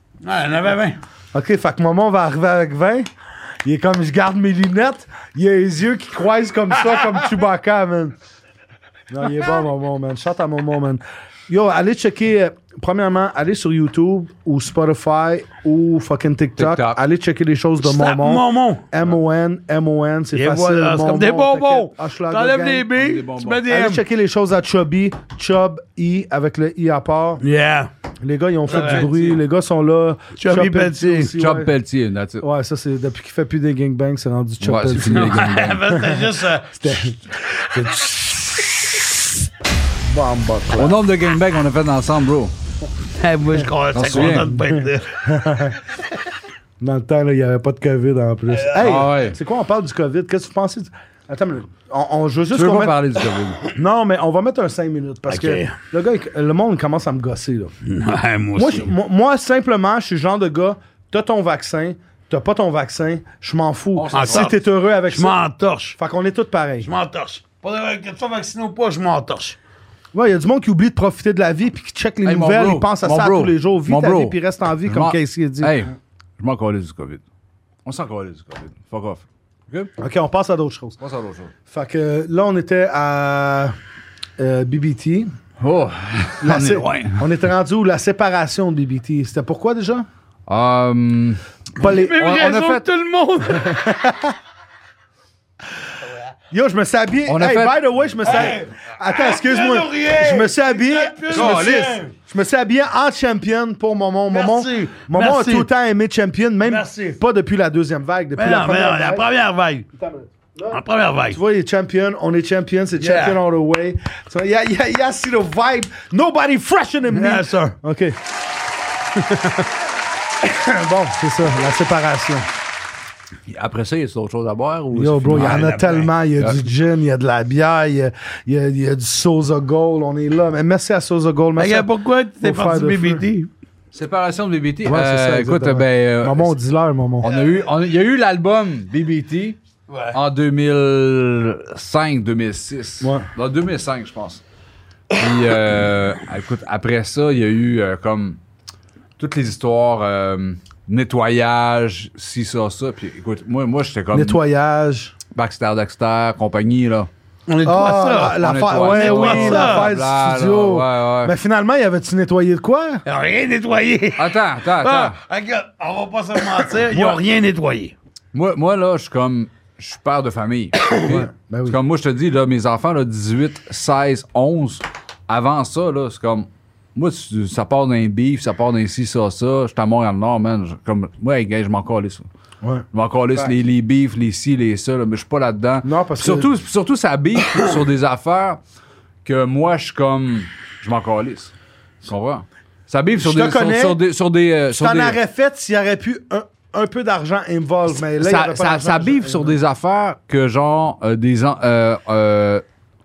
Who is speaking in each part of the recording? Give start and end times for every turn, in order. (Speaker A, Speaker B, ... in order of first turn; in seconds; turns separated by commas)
Speaker A: 0.2-1.0, Speaker B: 1.3-3.1, Speaker B: 3.6-8.2, Speaker B: 9.1-22.9, Speaker C: 16.6-17.0, Speaker A: 17.8-18.9, Speaker A: 20.3-24.0, Speaker C: 23.0-23.6, Speaker B: 23.7-27.4, Speaker A: 27.4-27.9, Speaker B: 28.2-31.7, Speaker A: 28.7-29.1, Speaker C: 28.7-29.4, Speaker A: 30.4-31.3, Speaker C: 31.4-32.4, Speaker B: 32.4-38.7, Speaker C: 34.6-35.9, Speaker A: 35.0-37.0, Speaker B: 40.0-41.0, Speaker C: 40.8-42.5, Speaker A: 43.2-45.2, Speaker C: 43.9-44.5, Speaker B: 44.2-45.8, Speaker B: 46.8-53.0, Speaker A: 48.5-49.0, Speaker C: 48.8-49.4, Speaker C: 52.5-53.6, Speaker B: 53.7-57.7, Speaker A: 55.3-55.8, Speaker A: 57.8-58.9, Speaker B: 58.5-65.4, Speaker C: 64.0-64.5, Speaker A: 64.1-66.0, Speaker B: 66.0-66.9, Speaker A: 66.8-69.6, Speaker B: 70.1-75.8, Speaker C: 72.2-77.2, Speaker C: 77.8-79.9, Speaker B: 80.0-81.0, Speaker C: 81.0-81.5, Speaker B: 81.7-83.7, Speaker B: 84.4-85.3, Speaker C: 85.6-87.2, Speaker B: 86.4-90.1, Speaker C: 90.5-92.8, Speaker B: 91.8-92.2, Speaker A: 91.8-93.9, Speaker B: 93.6-94.3, Speaker B: 96.5-109.2, Speaker C: 97.3-97.8, Speaker A: 98.2-102.1, Speaker C: 101.3-102.0, Speaker A: 104.3-105.7, Speaker A: 106.6-107.2, Speaker A: 108.4-109.9, Speaker B: 109.9-118.2, Speaker A: 110.7-111.4, Speaker A: 113.0-113.4, Speaker A: 117.1-117.8, Speaker B: 119.1-119.7, Speaker B: 120.4-122.5, Speaker C: 123.5-125.8, Speaker B: 124.9-131.9, Speaker A: 125.3-126.1, Speaker A: 131.6-133.5, Speaker B: 132.4-133.2, Speaker C: 133.9-136.5, Speaker B: 134.8-137.3, Speaker C: 137.2-139.6, Speaker A: 137.2-137.6, Speaker A: 139.9-140.2, Speaker C: 140.1-144.4, Speaker B: 143.0-143.3, Speaker C: 145.1-148.4, Speaker C: 149.2-154.4, Speaker B: 154.1-155.1, Speaker C: 155.3-157.1, Speaker A: 157.5-159.9, Speaker B: 157.6-163.0, Speaker C: 158.3-161.3, Speaker A: 163.0-167.9, Speaker C: 164.2-165.2, Speaker C: 166.9-167.2, Speaker C: 168.3-182.3, Speaker B: 171.1-171.8, Speaker B: 182.6-183.5, Speaker C: 182.9-188.6, Speaker B: 185.8-186.5, Speaker C: 189.2-191.5, Speaker C: 192.0-195.2, Speaker B: 193.2-194.0, Speaker B: 194.7-199.6, Speaker C: 198.0-202.6